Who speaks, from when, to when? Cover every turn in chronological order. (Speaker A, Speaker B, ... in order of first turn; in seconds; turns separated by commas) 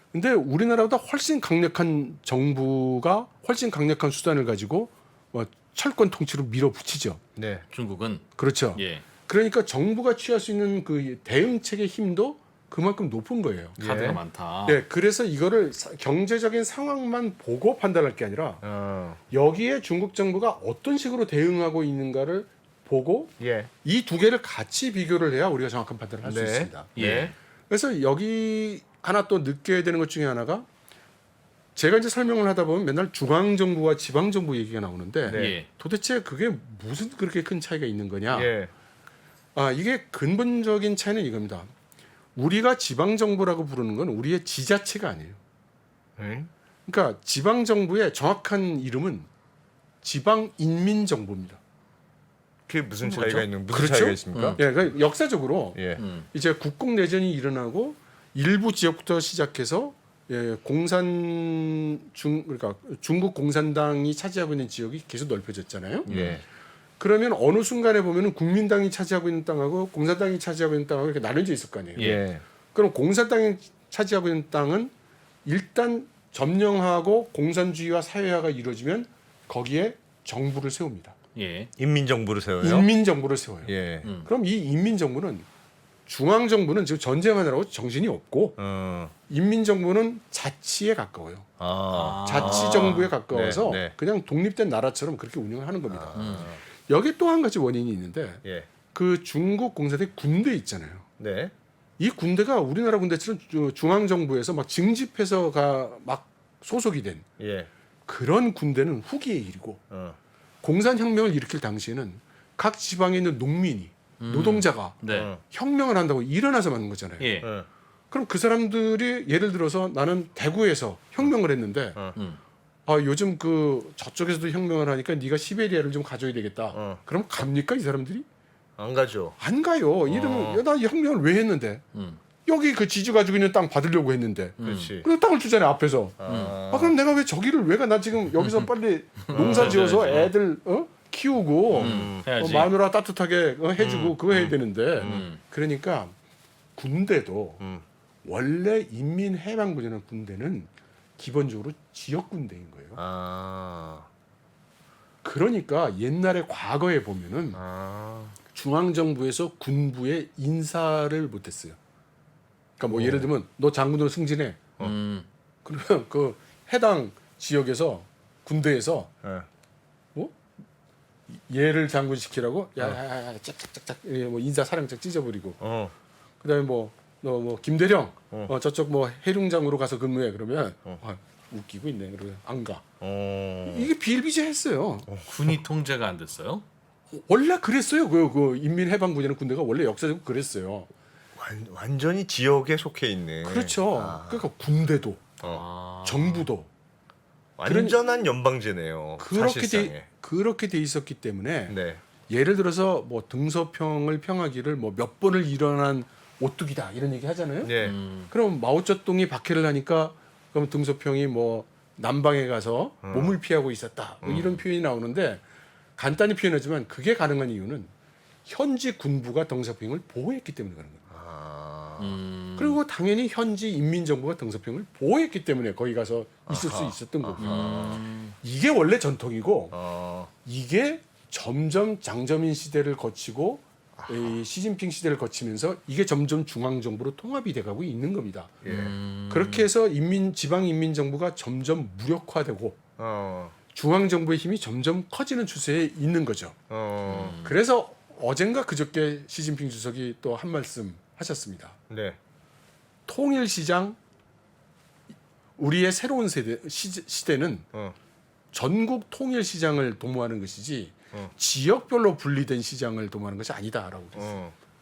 Speaker A: 0.1-7.2, Speaker B: 7.3-7.7, Speaker C: 7.7-9.0, Speaker A: 8.4-13.8, Speaker B: 13.8-14.2, Speaker C: 13.8-14.8, Speaker A: 14.7-18.6, Speaker B: 18.6-19.2, Speaker A: 19.3-26.9, Speaker B: 23.4-23.7, Speaker B: 26.2-27.3, Speaker C: 26.9-27.3, Speaker A: 27.7-30.7, Speaker A: 31.8-38.5, Speaker B: 35.2-35.6, Speaker C: 35.3-35.7, Speaker B: 38.3-38.7, Speaker A: 39.5-41.7, Speaker A: 42.4-45.4, Speaker B: 46.2-46.5, Speaker A: 46.9-49.3, Speaker A: 50.0-51.6, Speaker B: 52.7-54.8, Speaker A: 53.0-55.8, Speaker C: 54.3-54.6, Speaker B: 55.7-56.0, Speaker C: 56.0-56.3, Speaker A: 56.3-66.1, Speaker C: 66.1-66.4, Speaker B: 66.1-66.4, Speaker A: 67.0-72.2, Speaker C: 72.0-72.2, Speaker B: 72.0-72.4, Speaker A: 72.7-74.9, Speaker A: 75.4-81.2, Speaker C: 81.3-81.7, Speaker B: 81.8-82.9, Speaker A: 82.6-83.7, Speaker B: 83.6-84.1, Speaker C: 84.0-84.3, Speaker A: 84.2-85.5, Speaker A: 86.1-88.6, Speaker B: 88.6-89.1, Speaker A: 89.3-91.5, Speaker B: 91.6-93.9, Speaker C: 91.9-93.1, Speaker A: 92.2-98.4, Speaker B: 95.9-96.6, Speaker C: 96.2-96.5, Speaker B: 98.4-98.7, Speaker A: 98.9-101.1, Speaker B: 101.2-101.5, Speaker A: 102.0-107.2, Speaker B: 107.4-107.7, Speaker A: 108.1-109.8, Speaker B: 109.9-110.2, Speaker A: 110.6-117.3, Speaker C: 114.2-115.3, Speaker B: 115.1-115.4, Speaker C: 117.2-117.5, Speaker B: 117.4-117.7, Speaker A: 118.1-122.0, Speaker C: 122.1-122.4, Speaker A: 122.9-128.2, Speaker B: 126.7-127.0, Speaker B: 128.8-129.4, Speaker A: 129.4-131.8, Speaker B: 130.1-130.6, Speaker C: 131.9-132.2, Speaker A: 132.4-146.1, Speaker C: 134.6-134.9, Speaker B: 134.6-135.1, Speaker B: 136.2-136.9, Speaker C: 136.3-136.6, Speaker C: 138.4-138.7, Speaker C: 139.3-140.3, Speaker B: 139.3-139.8, Speaker B: 141.7-142.3, Speaker C: 141.8-142.7, Speaker B: 143.8-144.2, Speaker C: 144.3-145.4, Speaker B: 145.0-145.3, Speaker A: 146.8-147.6, Speaker B: 147.6-147.8, Speaker A: 148.2-153.0, Speaker B: 152.9-154.1, Speaker A: 155.2-157.6, Speaker B: 157.6-158.4, Speaker A: 158.5-161.8, Speaker A: 162.8-164.6, Speaker B: 162.9-163.3, Speaker C: 164.8-165.3, Speaker A: 165.6-169.1, Speaker A: 171.3-175.6, Speaker B: 175.6-175.9, Speaker A: 176.4-182.8, Speaker B: 183.0-183.9, Speaker A: 183.7-185.1, Speaker C: 185.2-186.6, Speaker A: 187.1-190.9, Speaker B: 191.3-194.4, Speaker A: 193.4-195.2, Speaker C: 195.4-196.5, Speaker A: 196.1-196.7, Speaker B: 197.6-200.1, Speaker A: 197.6-197.9, Speaker A: 199.2-201.8, Speaker B: 201.7-202.0, Speaker A: 202.3-207.7, Speaker B: 207.6-207.9, Speaker C: 207.8-208.3, Speaker A: 208.3-215.4, Speaker B: 213.0-213.4, Speaker B: 214.2-214.6, Speaker A: 216.0-217.9, Speaker A: 218.4-221.1, Speaker B: 221.1-222.2, Speaker C: 222.0-222.8, Speaker A: 222.6-229.7, Speaker B: 226.5-228.0, Speaker C: 227.4-228.3, Speaker B: 229.7-230.3, Speaker A: 230.4-238.6, Speaker B: 234.0-234.4, Speaker B: 238.6-238.9, Speaker C: 238.7-239.7, Speaker A: 239.3-242.8, Speaker B: 243.0-243.6, Speaker A: 243.7-246.6, Speaker B: 246.7-247.4, Speaker C: 247.1-247.6, Speaker A: 247.4-251.8, Speaker B: 251.9-252.2, Speaker A: 253.1-254.0, Speaker A: 255.6-257.7, Speaker A: 258.5-264.3, Speaker B: 264.2-264.5